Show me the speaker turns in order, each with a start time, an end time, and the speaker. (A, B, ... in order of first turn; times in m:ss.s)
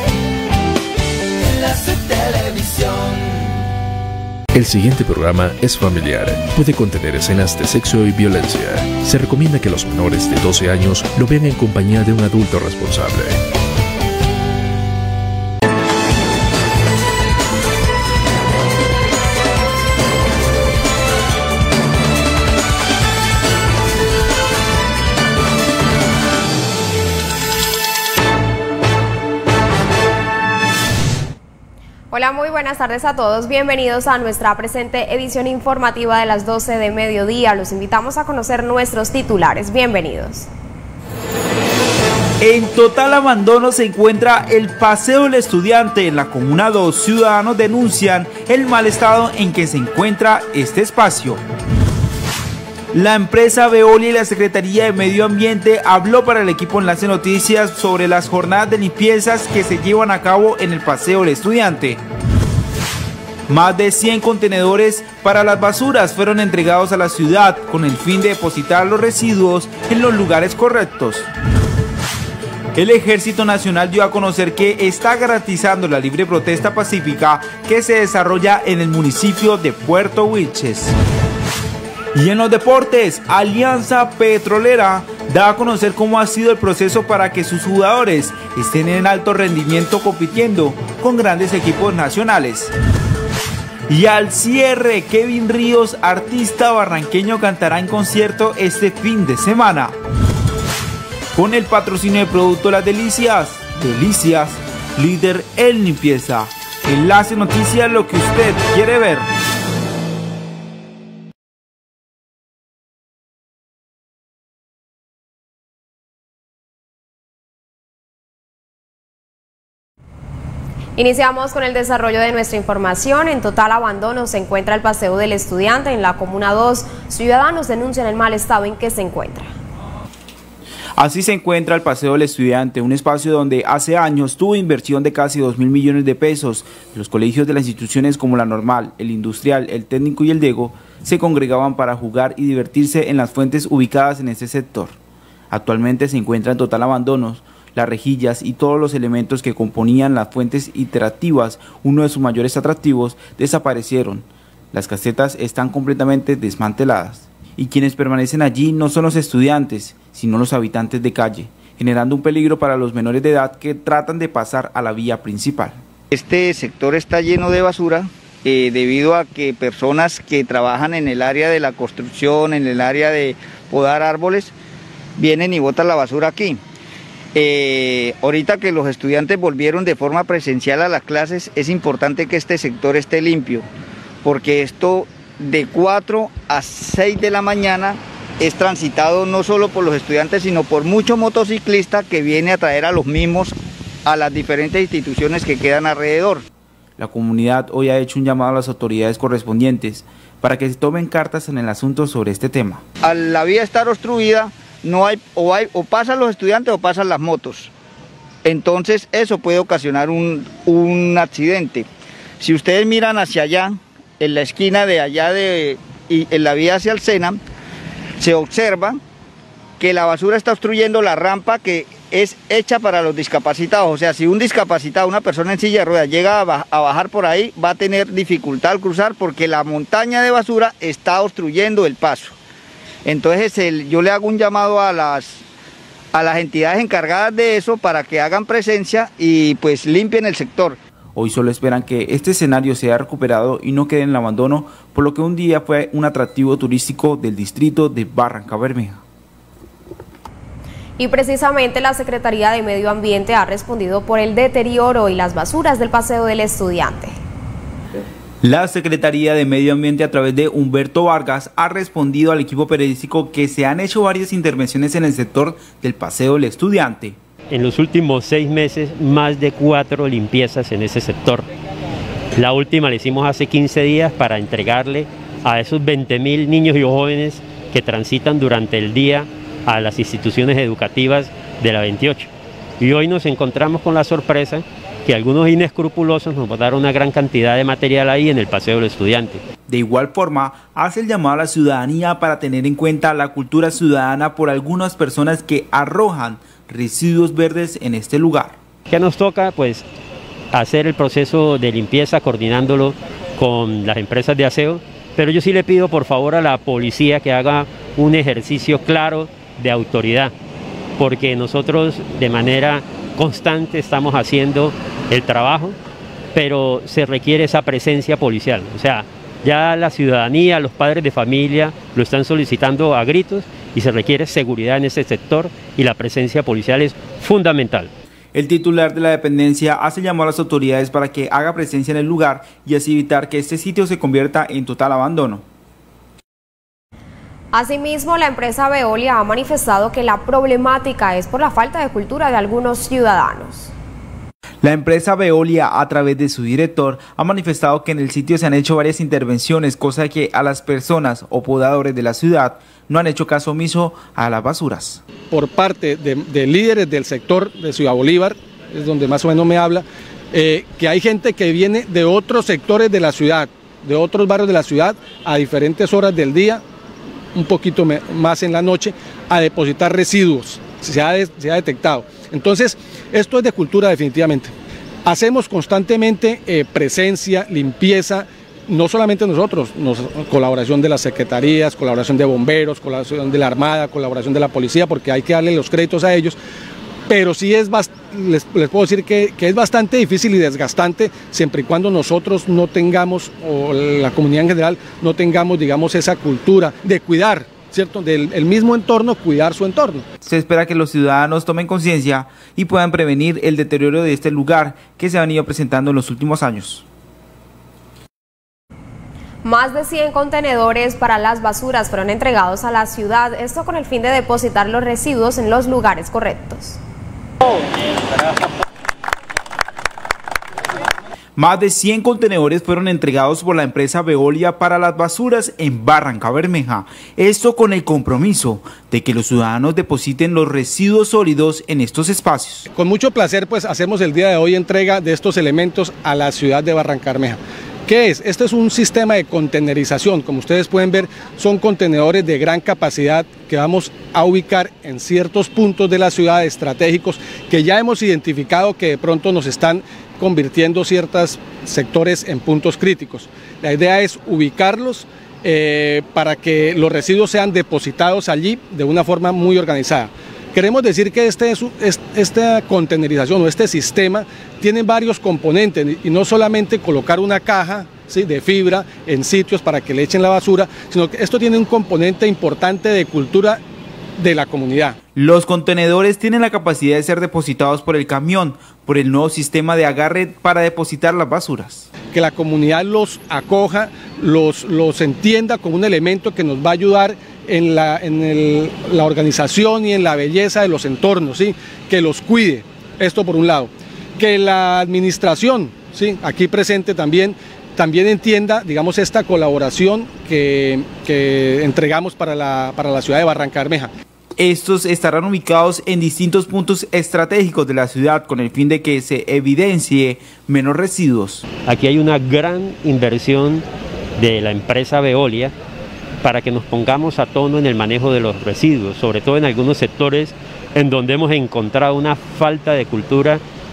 0:01.5-0:03.2 A
0:04.5-0:13.4 A
0:32.1-0:40.5 B
0:42.4-0:51.4 C
0:52.9-1:02.0 C
1:03.5-1:11.3 C
1:12.8-1:20.9 C
1:22.1-1:32.7 C
1:33.9-1:40.0 C
1:41.3-1:49.3 C
2:01.0-2:09.5 B
2:11.0-2:25.0 C
2:25.5-2:45.8 C
2:46.1-2:54.5 D
2:55.2-2:56.6 D
2:57.3-3:03.6 D
3:04.2-3:16.4 D
3:17.0-3:22.8 C
3:23.0-3:27.7 D
3:28.4-3:31.8 D
3:32.4-3:37.4 D
3:38.2-3:39.0 D
3:39.8-3:52.3 D
3:53.0-3:55.4 D
3:56.1-4:00.8 D
4:01.1-4:09.0 C
4:11.0-4:17.2 B
4:18.4-4:27.2 C
4:27.5-4:31.5 E
4:32.4-4:42.3 E
4:42.8-4:49.4 E
4:49.7-4:58.6 C
4:58.9-4:59.8 E
5:00.5-5:10.3 E
5:11.0-5:15.8 E
5:16.3-5:27.9 E
5:28.3-5:35.4 C
5:37.5-5:43.7 B
5:44.6-5:55.0 C
5:55.3-6:06.6 F
6:07.3-6:14.5 F
6:15.0-6:26.4 F
6:27.1-6:40.0 F
6:40.2-6:46.8 C
6:49.4-6:56.8 B
7:01.4-7:12.7 C
7:12.7-7:53.6 F
7:54.2-7:55.0 F
7:55.1-8:01.9 C
8:02.1-8:23.9 F
8:24.4-8:31.4 C
8:31.6-8:33.6 E
8:34.2-8:35.5 E
8:36.2-8:43.4 E